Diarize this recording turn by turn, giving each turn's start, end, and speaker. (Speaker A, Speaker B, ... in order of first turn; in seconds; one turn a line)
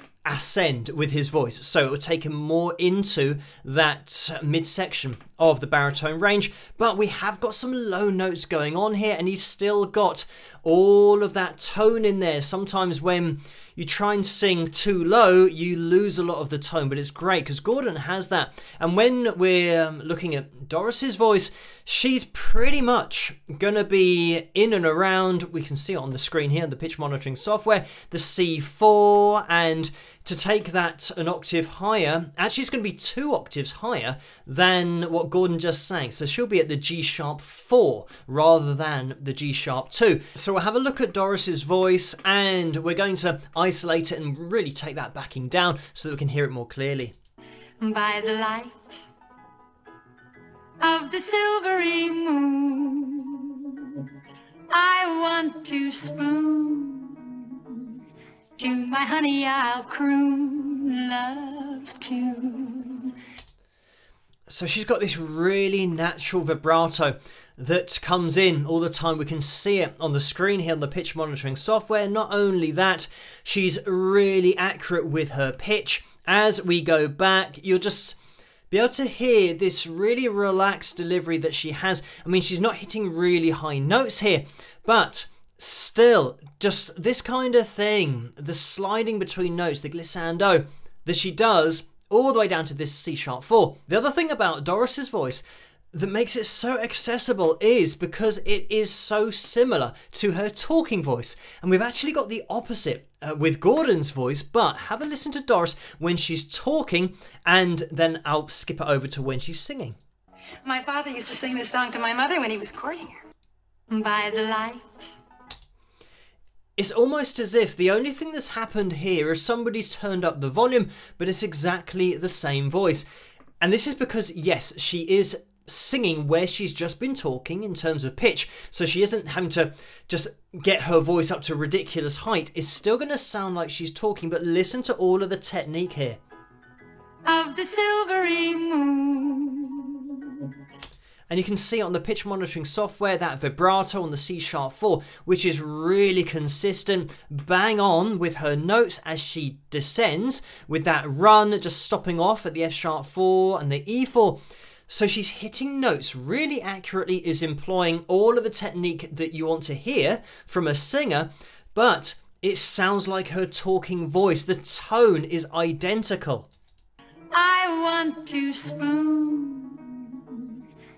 Speaker A: 0.3-47.1
Speaker B: 47.8-49.0
Speaker B: 50.8-54.1
Speaker B: 54.7-58.0
Speaker B: 58.6-63.2
Speaker A: 64.5-78.2
Speaker A: 78.7-110.0
Speaker C: 110.7-113.2
Speaker B: 113.9-115.1
Speaker A: 116.8-123.1
Speaker A: 123.6-136.2
Speaker B: 137.2-140.5
Speaker A: 141.3-166.5
Speaker B: 167.3-170.6